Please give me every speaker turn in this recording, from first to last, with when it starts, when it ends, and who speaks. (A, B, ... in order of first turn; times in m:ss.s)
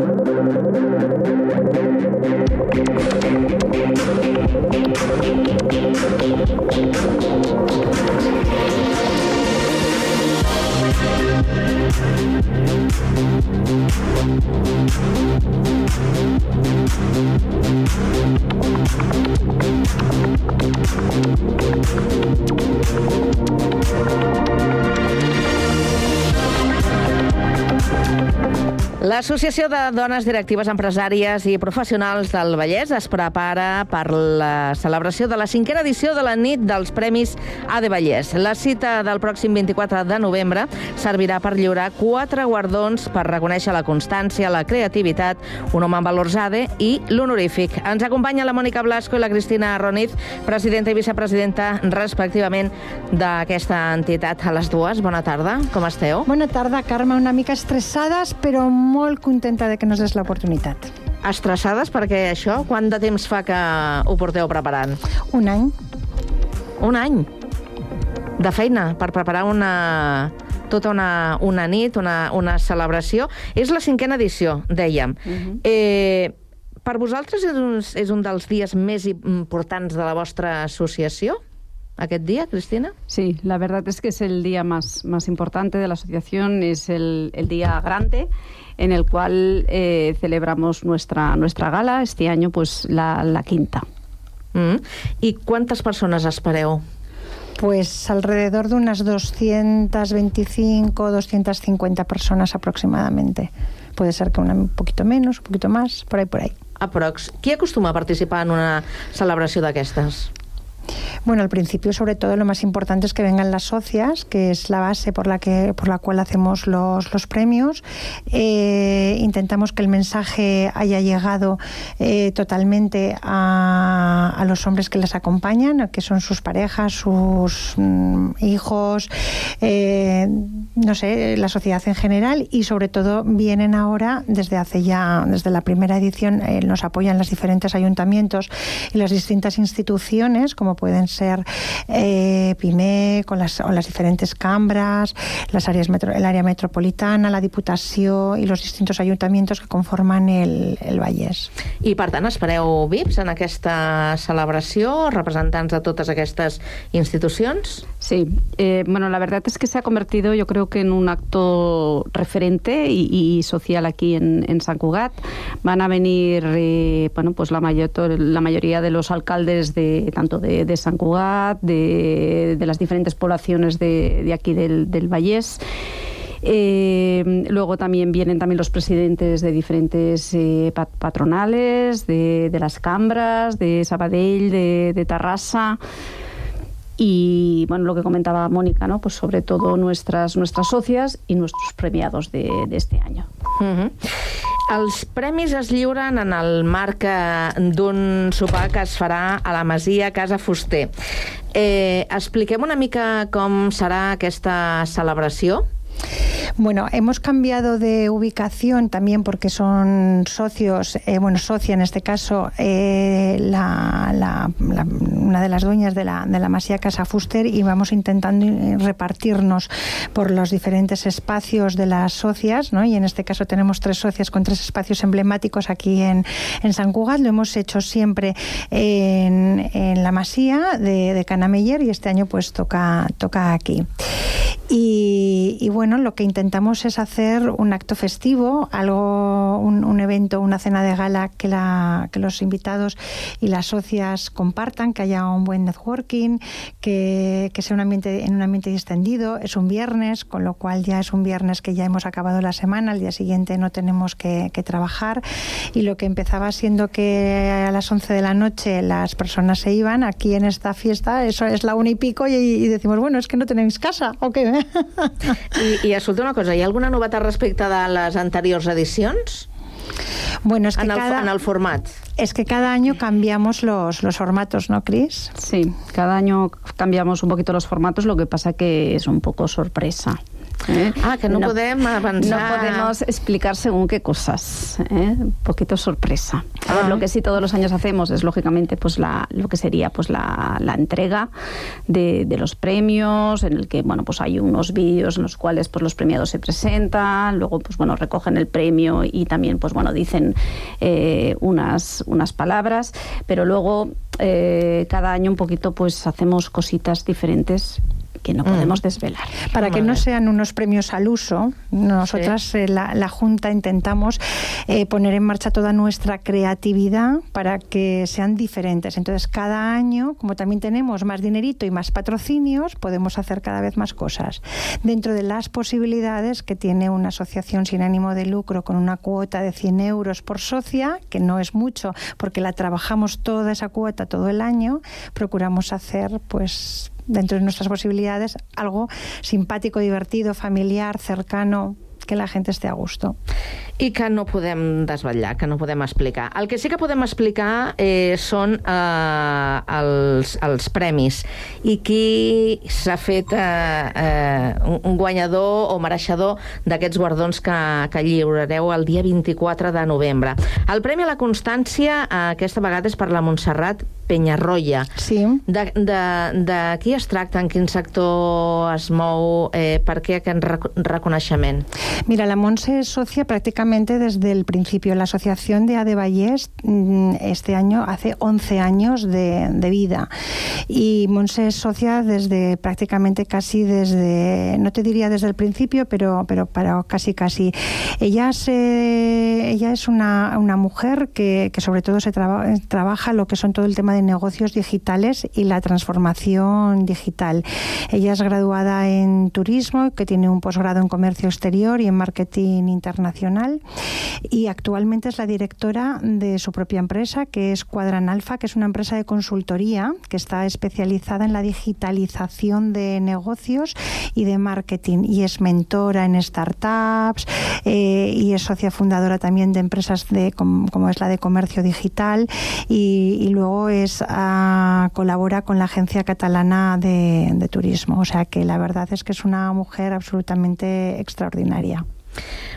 0:29.0-0:56.3 A
0:56.3-1:00.9 B
1:01.2-1:05.0 A
1:05.3-1:05.7 B
1:06.8-1:07.3 A
1:08.4-1:16.3 A
1:15.3-1:15.6 C
1:16.8-1:21.4 A
1:22.0-1:22.9 A
1:23.1-1:33.8 C
1:34.5-1:36.8 A
1:37.6-1:46.6 B
1:46.8-1:50.3 A
1:51.2-2:31.5 B
2:31.8-2:37.8 A
2:38.0-2:55.6 C
2:56.4-3:05.8 C
3:07.0-3:13.3 C
3:13.6-3:14.1 A
3:14.7-3:20.9 A
3:21.5-3:25.6 A
3:26.6-4:25.2 B
4:25.6-4:29.5 A
4:30.4-4:31.3 B
4:30.8-4:31.9 A
4:32.2-4:35.3 B
4:35.4-4:41.6 C
4:41.0-4:42.9 A
4:42.2-4:51.3 C
4:46.7-4:47.0 A
4:51.9-5:09.4 C
5:08.4-5:08.8 A
5:09.5-5:43.2 B
5:09.6-5:10.0 A
5:43.8-6:04.9 A
6:05.0-6:05.4 B
6:05.5-6:11.7 A
6:12.1-6:20.1 B
6:20.7-6:43.6 B
6:44.3-7:11.8 B